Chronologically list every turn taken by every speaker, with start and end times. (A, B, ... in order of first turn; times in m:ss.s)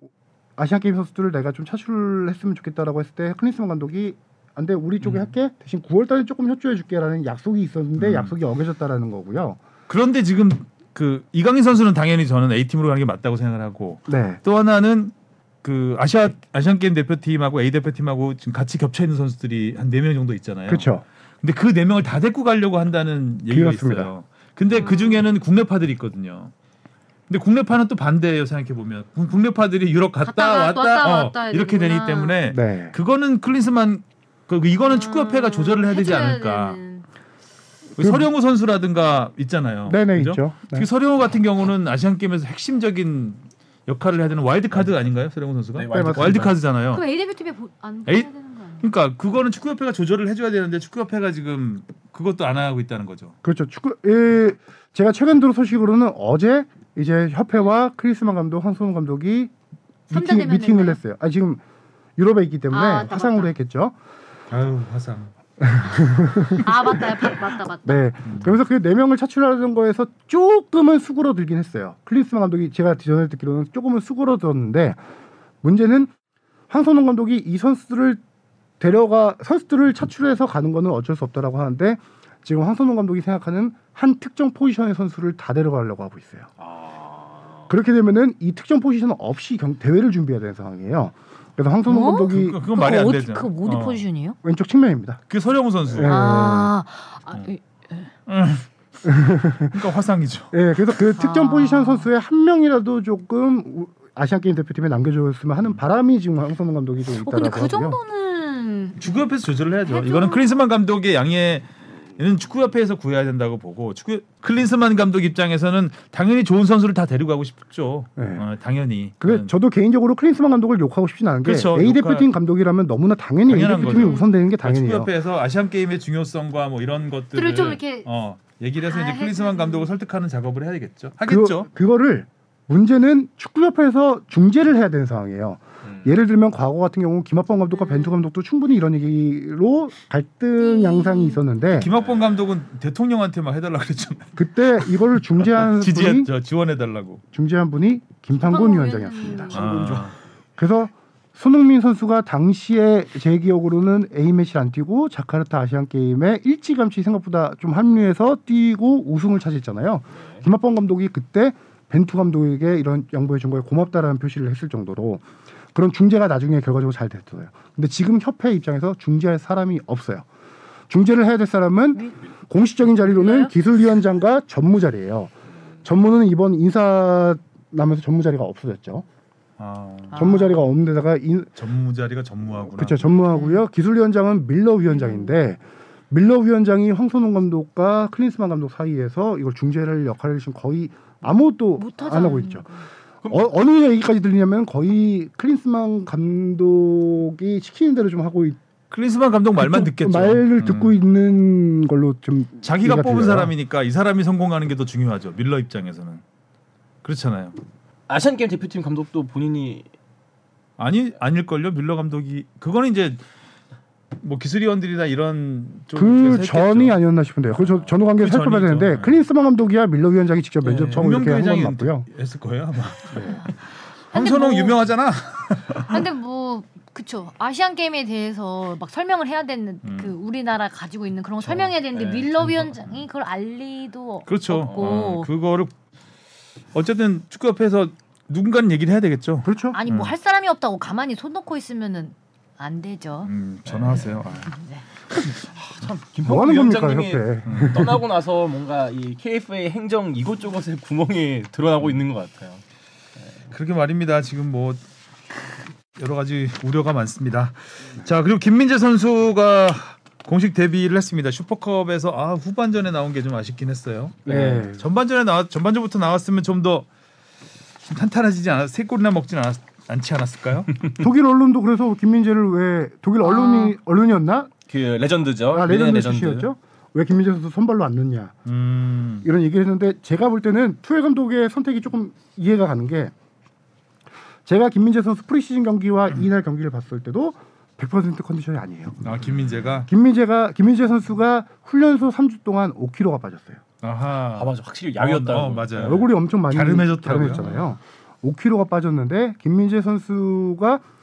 0:00.6-0:09.6 A
0:08.0-0:08.3 B
0:09.9-0:26.5 B
0:14.1-0:14.4 A
0:20.7-0:21.0 A
0:23.5-0:24.1 A
0:24.8-0:25.2 C
0:27.3-0:36.8 B
0:30.2-0:32.4 C
0:32.5-0:33.0 A
0:34.9-0:37.0 C
0:38.0-0:47.0 B
0:38.0-0:38.3 A
0:39.8-0:40.9 A
0:45.7-0:46.6 D
0:45.9-0:46.5 A
0:46.9-0:48.9 C
0:48.8-0:53.4 B
0:53.4-0:59.5 A
1:00.1-1:01.6 A
1:00.1-1:01.0 C
1:02.2-1:03.9 A
1:02.7-1:03.5 C
1:04.5-1:05.3 B
1:05.6-1:07.3 A
1:06.6-1:08.0 C
1:07.8-1:15.0 A
1:08.2-1:08.5 B
1:15.6-1:16.1 A
1:16.7-1:18.2 A
1:18.8-1:26.5 A
1:26.6-1:27.7 D
1:27.7-1:32.6 A
1:31.9-1:34.4 C
1:32.3-1:34.0 B
1:34.4-1:35.2 A
1:35.3-1:36.2 B
1:35.9-1:36.7 A
1:36.0-1:38.1 C
1:38.3-1:39.1 B
1:39.0-1:39.8 A
1:39.6-1:40.5 B
1:40.5-1:48.0 A
1:41.2-1:42.1 C
1:47.2-1:49.2 C
1:49.0-1:59.5 B
1:49.8-1:50.5 C
1:58.2-1:58.4 A
1:59.2-2:05.1 A
2:01.4-2:02.3 B
2:03.5-2:11.7 B
2:03.8-2:04.2 C
2:07.3-2:08.1 C
2:08.8-2:09.9 C
2:11.2-2:21.9 A
2:17.7-2:18.1 C
2:20.6-2:21.4 C
2:21.7-2:24.3 B
2:21.8-2:22.2 D
2:24.4-2:26.3 A
2:25.5-2:27.2 B
2:27.3-2:50.2 A
2:28.4-2:29.6 C
2:29.5-2:30.1 B
2:50.9-2:55.3 A
2:53.1-2:53.5 C
2:55.8-2:59.0 A
2:59.6-3:00.3 B
3:00.1-3:00.6 C
3:00.1-3:01.5 A
3:01.6-3:03.1 B
3:02.7-3:12.7 A
3:03.1-3:03.6 C
3:04.9-3:05.3 C
3:11.8-3:12.9 C
3:13.3-3:18.6 A
3:18.9-3:20.9 B
3:19.6-3:23.5 A
3:22.6-3:26.2 B
3:27.0-3:27.6 B
3:28.1-3:29.9 D
3:30.8-3:33.2 B
3:34.2-3:37.0 B
3:35.9-3:42.1 A
3:37.7-3:39.2 B
3:40.6-3:43.4 B
3:40.7-3:41.0 D
3:43.1-3:43.4 A
3:43.2-3:43.5 C
3:44.1-3:44.8 C
3:44.1-3:46.0 B
3:45.9-3:55.3 C
3:49.8-3:50.1 B
3:51.9-3:52.3 D
3:54.2-3:55.7 B
3:56.7-4:00.1 B
3:59.4-3:59.8 A
3:59.7-4:03.3 C
4:03.2-4:04.5 B
4:03.6-4:04.2 D
4:04.5-4:04.8 C
4:05.5-4:12.6 D
4:06.2-4:08.0 A
4:07.5-4:08.0 B
4:13.5-4:14.8 B
4:16.0-4:26.9 B
4:24.2-4:24.7 D
4:24.3-4:24.8 A
4:27.8-4:30.8 B
4:31.0-4:34.5 A
4:33.2-4:33.8 C
4:34.7-4:36.5 D
4:35.5-4:38.3 A
4:38.4-4:39.2 B
4:39.2-4:43.1 A
4:44.4-4:49.2 A
4:49.0-4:49.9 B
4:49.8-4:53.6 A
4:53.8-4:57.6 B
4:54.3-4:56.1 D
4:55.8-5:00.8 A